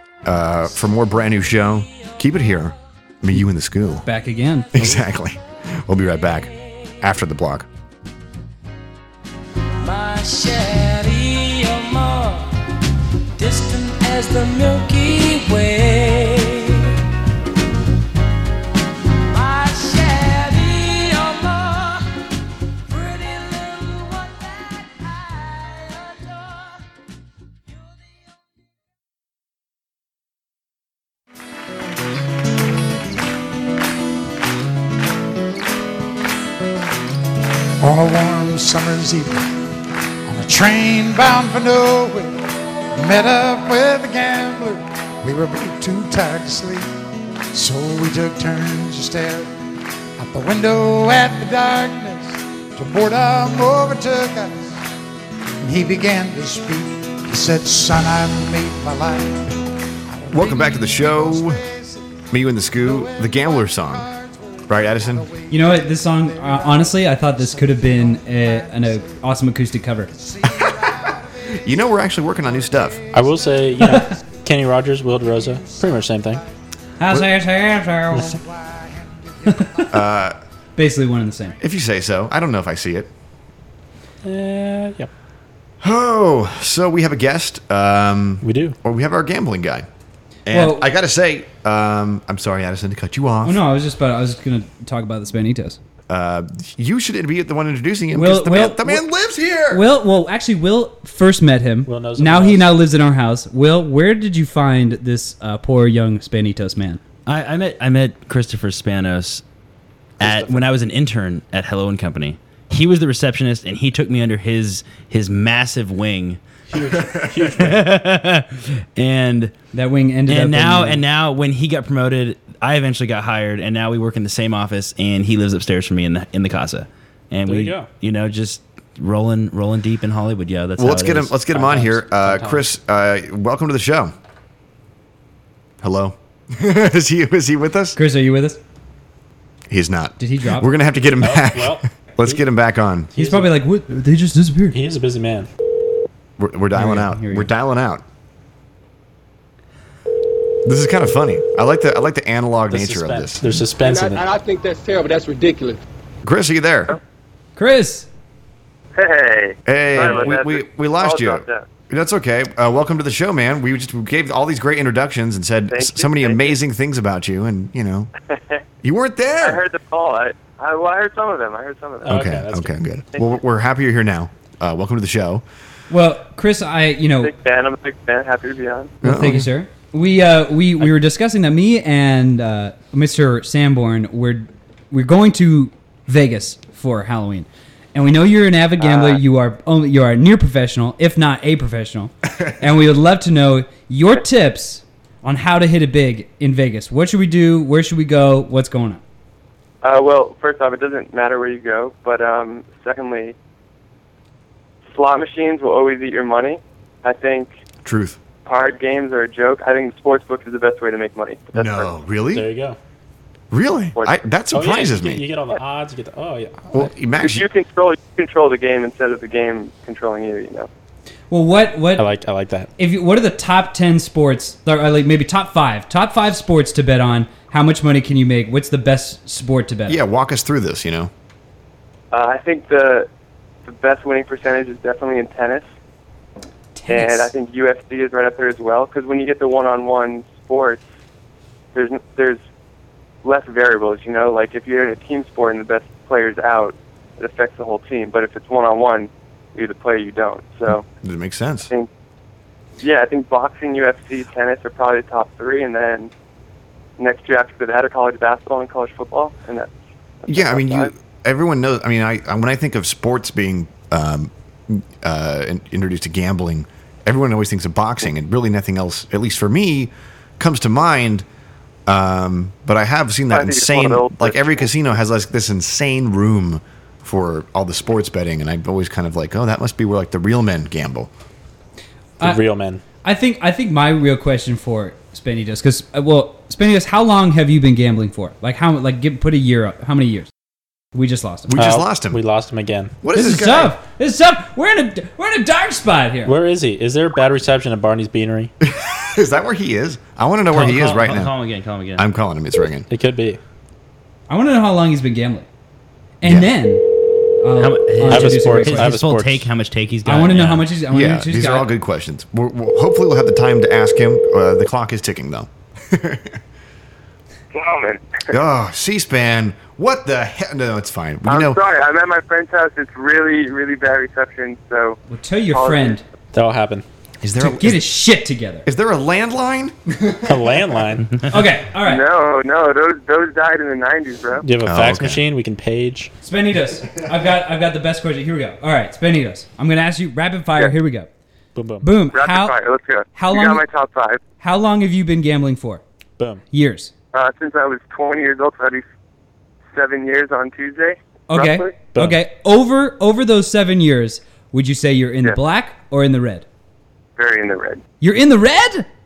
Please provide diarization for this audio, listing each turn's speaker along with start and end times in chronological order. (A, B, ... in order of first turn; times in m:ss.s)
0:00.2-0:04.0 A
0:04.0-0:04.8 B
0:04.7-0:07.7 A
0:09.8-0:12.6 C
0:13.4-0:17.0 C
0:19.2-0:22.1 C
0:22.9-0:26.9 C
0:27.7-0:28.5 C
0:37.8-0:39.5 D
0:40.3-0:42.4 D
0:42.9-0:46.9 D
0:47.5-0:49.5 D
0:50.2-0:54.8 D
0:55.6-1:09.3 D
1:00.3-1:01.6 A
1:02.3-1:04.1 A
1:04.7-1:05.3 A
1:05.5-1:10.1 B
1:10.1-1:14.4 D
1:11.6-1:13.0 A
1:13.1-1:16.4 E
1:13.8-1:14.2 B
1:15.2-1:16.4 D
1:17.0-1:18.4 B
1:18.3-1:20.0 D
1:19.5-1:19.9 B
1:19.9-1:20.4 A
1:20.8-1:21.6 B
1:21.6-1:23.1 A
1:24.2-1:25.1 E
1:25.8-1:29.9 A
1:28.4-1:28.8 E
1:30.5-1:33.6 A
1:30.5-1:30.9 B
1:33.4-1:35.8 B
1:36.1-1:39.8 A
1:38.1-1:39.1 B
1:39.7-1:47.0 B
1:41.9-1:42.7 E
1:47.3-1:49.4 F
1:50.2-1:56.4 F
1:50.2-1:50.6 E
1:56.7-1:57.9 E
1:57.5-1:59.5 F
1:59.7-2:01.0 B
2:00.3-2:11.4 F
2:07.5-2:07.9 E
2:10.8-2:14.1 A
2:11.5-2:12.6 E
2:15.8-2:18.0 A
2:18.0-2:18.6 B
2:19.7-2:23.1 A
2:20.2-2:20.7 B
2:21.2-2:22.4 E
2:23.2-2:23.5 E
2:23.2-2:24.8 B
2:24.7-2:25.5 E
2:26.4-2:28.0 A
2:26.7-2:27.5 B
2:30.6-2:33.5 A
2:32.7-2:34.2 E
2:33.8-2:35.8 G
2:36.2-2:37.0 A
2:37.6-2:38.1 B
2:39.0-2:41.6 H
2:39.7-2:48.1 A
2:45.7-2:46.6 H
2:48.3-2:48.6 H
2:48.8-2:49.6 A
2:49.4-2:52.3 H
2:52.0-2:52.8 E
2:52.1-2:55.4 A
2:55.9-2:57.3 B
2:57.2-2:58.9 H
2:59.0-2:59.5 A
2:59.0-3:19.0 B
3:08.8-3:09.2 H
3:19.8-3:23.4 H
3:24.9-3:27.5 H
3:27.8-3:28.2 A
3:28.5-3:31.9 H
3:31.6-3:32.5 A
3:32.3-3:32.8 E
3:33.5-3:35.3 A
3:34.5-3:36.8 E
3:36.7-3:37.5 A
3:37.2-3:40.7 H
3:41.3-3:42.1 B
3:42.0-3:42.7 E
3:42.8-3:50.0 B
3:49.9-3:51.1 A
3:52.1-3:53.1 H
3:53.7-3:55.7 H
3:56.8-3:57.3 B
3:56.9-4:00.8 H
4:01.7-4:02.4 H
4:03.2-4:10.8 H
4:11.0-4:11.7 A
4:12.8-4:16.1 H
4:17.0-4:19.7 H
4:20.2-4:20.9 H
4:20.3-4:31.3 A
4:31.9-4:41.1 A
4:33.3-4:34.7 H
4:42.2-4:42.8 E
4:43.0-4:50.3 B
4:50.9-4:51.6 B
4:51.5-4:52.2 A
4:51.6-4:52.9 E
4:53.0-4:53.8 A
4:53.1-4:56.4 B
4:56.3-4:58.5 E
4:58.6-5:01.3 A
5:00.5-5:02.1 F
5:02.0-5:02.9 A
5:02.9-5:03.4 E
5:04.3-5:05.5 B
5:06.2-5:09.0 B
5:06.2-5:06.5 A
5:07.6-5:10.7 F
5:08.1-5:09.5 E
5:10.1-5:11.7 B
5:10.9-5:16.4 A
5:17.5-5:18.2 H
5:18.3-5:21.6 A
5:21.3-5:25.0 H
5:25.1-5:26.0 B
5:25.5-5:26.0 H
5:26.3-5:26.8 E
5:27.2-5:27.8 A
5:27.4-5:28.7 B
5:28.7-5:30.6 A
5:30.3-5:31.1 E
5:31.3-5:32.0 B
5:31.8-5:34.4 H
5:34.4-5:36.1 E
5:34.6-5:35.2 A
5:36.2-5:41.1 B
5:41.6-5:41.9 E
5:41.8-5:42.6 B
5:42.1-5:44.2 H
5:43.2-5:43.6 B
5:44.4-5:45.8 B
5:46.5-5:46.9 B
5:47.1-5:48.8 H
5:49.7-5:51.8 H
5:51.3-5:56.5 B
5:57.2-5:57.8 H
5:58.0-5:58.9 B